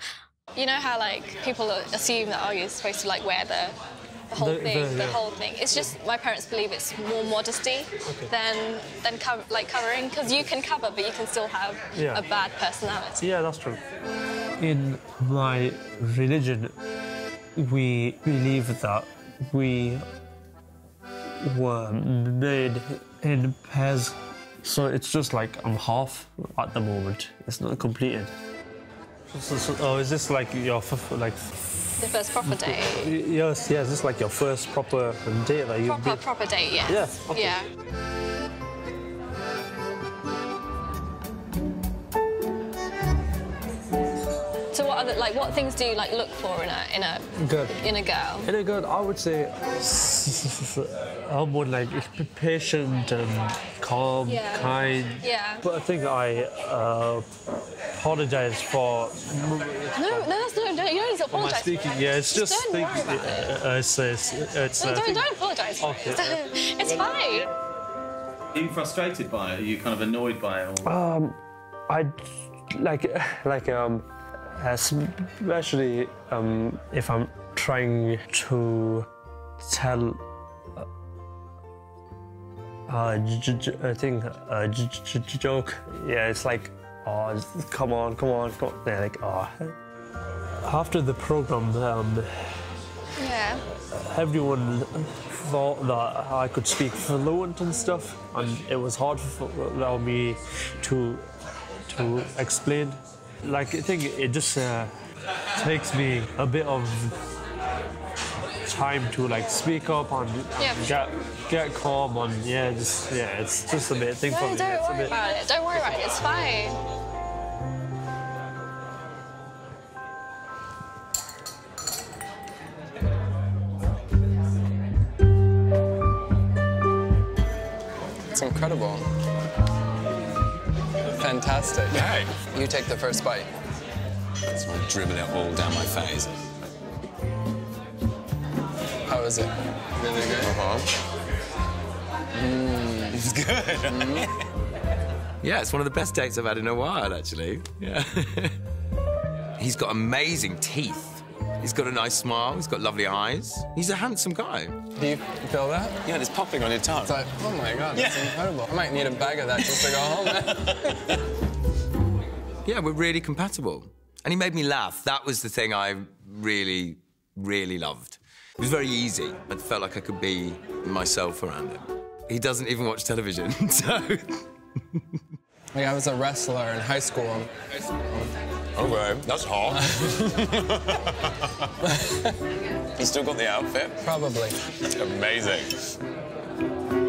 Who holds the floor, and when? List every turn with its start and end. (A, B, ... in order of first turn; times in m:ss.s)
0:00.5-0:03.8 A
0:04.3-0:13.2 A
0:04.4-0:05.2 B
0:11.9-0:12.3 B
0:13.2-0:13.8 B
0:14.6-0:16.7 B
0:17.6-0:20.0 B
0:21.4-0:28.3 B
0:29.3-0:36.2 B
0:32.0-0:33.1 A
0:35.8-0:37.7 A
0:36.9-0:37.6 B
0:44.7-0:48.5 A
0:47.4-0:47.8 B
0:48.4-0:57.2 B
0:54.2-0:55.6 A
0:57.9-1:00.3 B
0:59.9-1:03.6 A
1:01.3-1:05.3 B
1:04.8-1:07.5 A
1:05.8-1:06.2 B
1:08.5-1:10.9 C
1:10.8-1:11.4 B
1:11.9-1:12.1 B
1:12.7-1:14.0 B
1:14.6-1:19.1 B
1:19.6-1:20.2 B
1:22.9-1:29.7 B
1:30.6-1:32.5 B
1:33.2-1:33.6 A
1:34.0-1:41.2 B
1:41.9-1:44.9 B
1:45.6-1:47.2 B
1:48.6-1:55.2 B
1:50.6-1:51.0 A
1:54.2-1:56.8 A
2:08.3-2:09.0 D
2:11.2-2:13.5 D
2:11.9-2:12.3 E
2:14.5-2:16.3 E
2:19.1-2:20.6 D
2:20.4-2:20.9 E
2:22.4-2:23.2 D
2:23.1-2:24.3 E
2:23.9-2:24.3 D
2:25.4-2:28.5 F
2:29.6-2:34.8 F
2:34.9-2:36.0 D
2:36.0-2:37.2 E
2:37.0-2:40.9 D
2:37.9-2:38.5 E
2:39.6-2:40.5 E
2:42.6-2:54.4 F
2:55.7-2:57.5 D
2:58.7-3:01.0 E
3:03.0-3:04.0 E
3:04.0-3:04.6 D
3:04.9-3:05.7 E